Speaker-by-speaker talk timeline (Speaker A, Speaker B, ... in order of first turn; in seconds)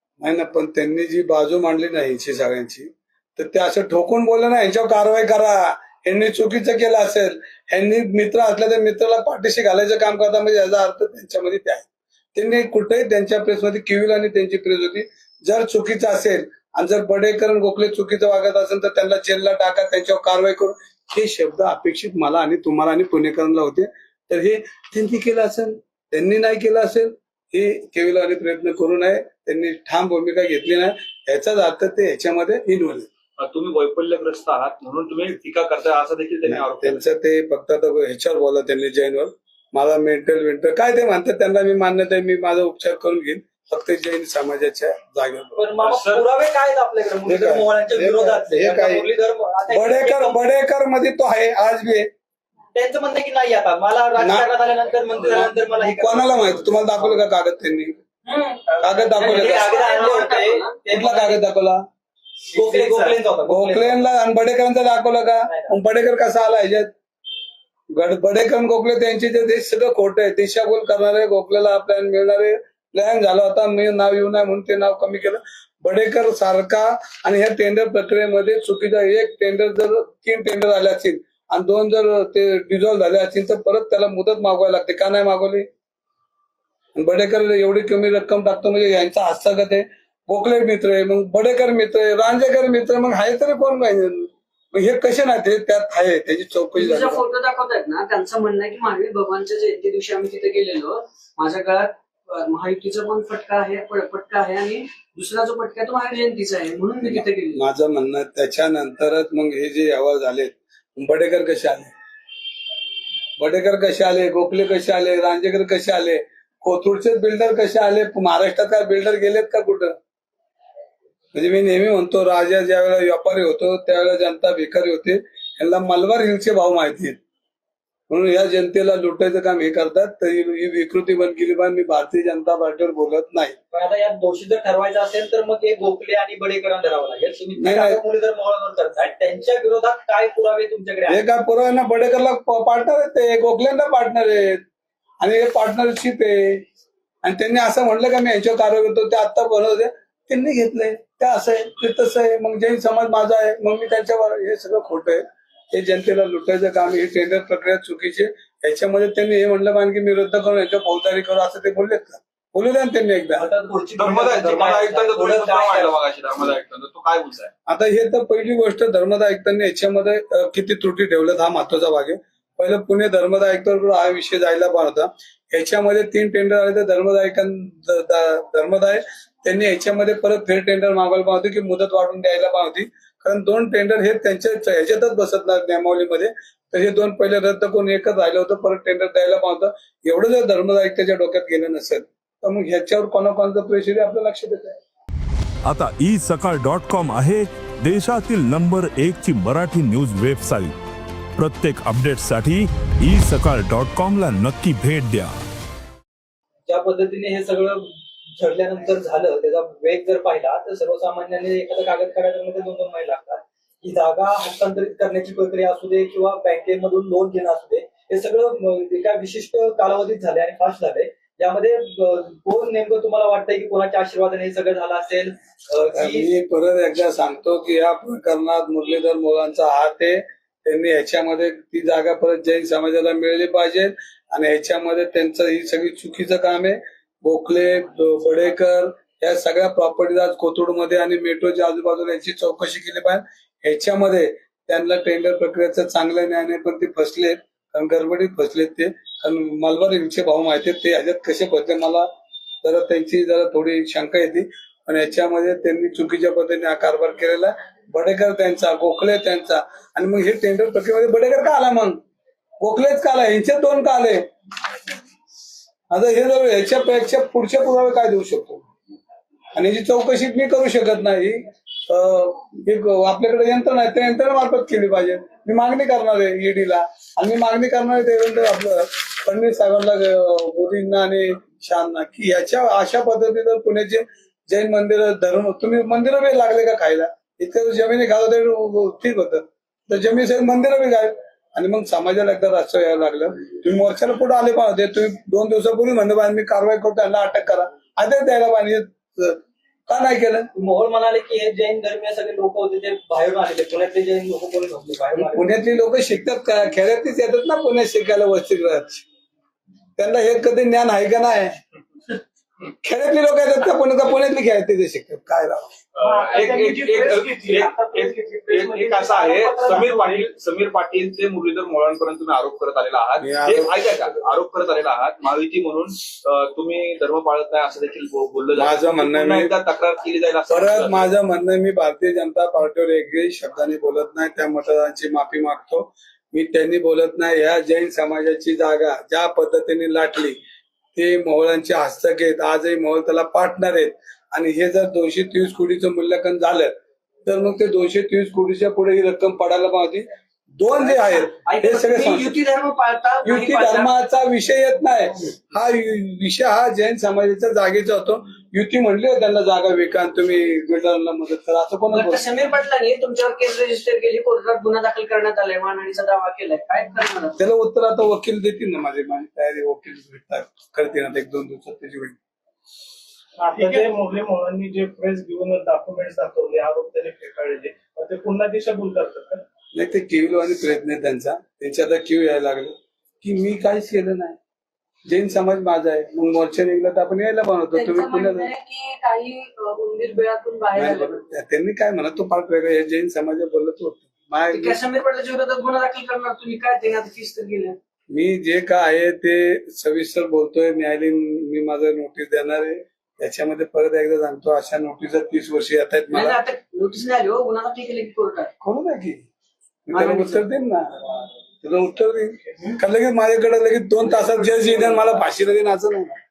Speaker A: 0.2-33.1, 36.5-45.6, 47.3-49.1, 49.7-52.1, 54.2-54.5, 55.2-58.0, 58.8-59.8, 60.9-61.8, 63.5-66.9, 68.0-85.7, 87.0-97.2, 107.0-111.9, 113.4-119.9, 121.3-127.2, 128.1-133.6, 137.6-138.0, 141.1-144.6, 145.2-146.7, 147.2-163.5, 167.7-194.8, 225.9-252.1, 252.6-262.0, 262.6-264.2, 265.9-268.6, 269.6-300.5, 305.2-309.1, 310.0-311.6, 312.8-315.7, 323.2-323.7, 328.6-329.5, 330.5-340.4, 340.9-350.1, 350.6-352.4, 353.2-362.2, 367.4-372.2, 379.7-384.4, 385.1-388.5, 390.8-394.8, 398.1-406.4, 408.6-409.2, 409.9-411.0, 411.6-416.2
Speaker B: 33.4-37.0, 45.8-46.2, 164.0-167.5, 316.0-331.1
Speaker C: 45.6-50.4, 52.7-57.2, 58.7-61.4, 62.5-64.0, 65.5-65.7, 133.7-141.2, 163.4-166.0, 206.7-226.3, 300.6-305.5
Speaker D: 58.3-58.6, 59.2-60.8, 96.8-107.6, 350.9-353.9, 361.9-367.4, 387.7-391.3, 394.5-397.8, 406.1-408.5, 409.9-410.4
Speaker E: 195.7-200.7, 201.4-205.3
Speaker F: 316.0-320.3, 373.4-379.4